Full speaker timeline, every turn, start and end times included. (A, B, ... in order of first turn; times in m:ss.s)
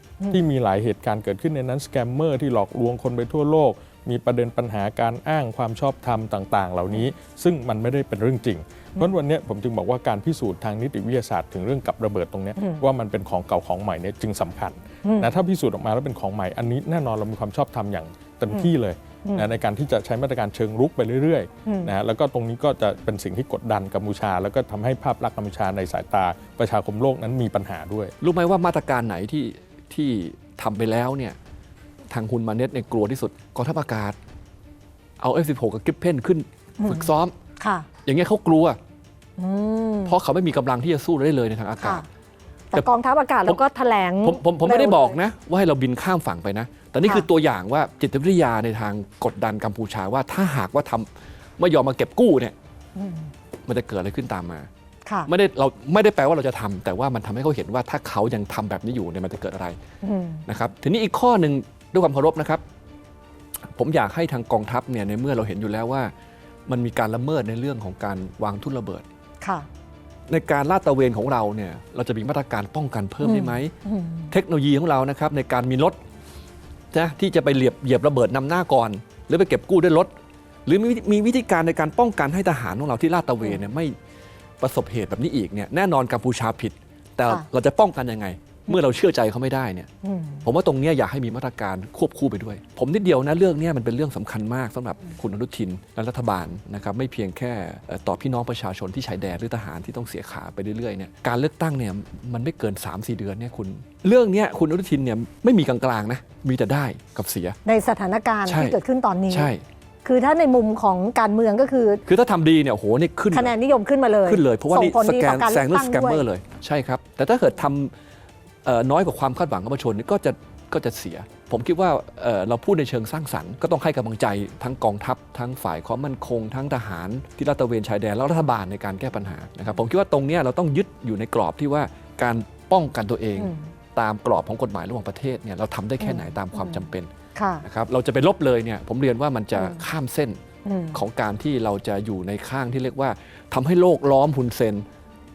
0:00.3-0:28.1 A
0:21.7-0:21.9 B
0:28.2-0:31.4 C
0:32.1-0:34.2 C
0:35.2-0:37.3 C
0:36.8-0:37.9 B
0:38.0-0:38.8 C
0:39.4-0:40.2 B
0:40.0-0:42.0 C
0:41.8-0:42.0 B
0:42.7-0:45.2 B
0:44.2-0:52.5 C
0:53.0-0:53.2 B
0:53.7-0:54.7 C
0:55.3-0:59.8 C
1:00.0-1:00.4 B
1:00.5-1:02.6 C
1:03.8-1:06.1 C
1:06.7-1:09.0 C
1:10.3-1:13.7 C
1:13.2-1:14.3 B
1:14.3-1:16.0 C
1:16.9-1:20.1 C
1:20.7-1:24.0 C
1:24.6-1:29.9 C
1:30.0-1:30.4 B
1:30.4-1:47.6 C
1:47.6-1:49.5 B
1:48.5-1:48.8 C
1:49.3-1:49.6 C
1:50.0-1:52.0 B
1:52.1-1:53.6 C
1:53.3-1:56.2 B
1:54.2-1:57.9 C
1:58.6-2:17.1 C
2:16.1-2:16.7 B
2:17.4-2:17.6 B
2:17.6-2:20.4 C
2:20.6-2:21.0 B
2:20.9-2:24.9 C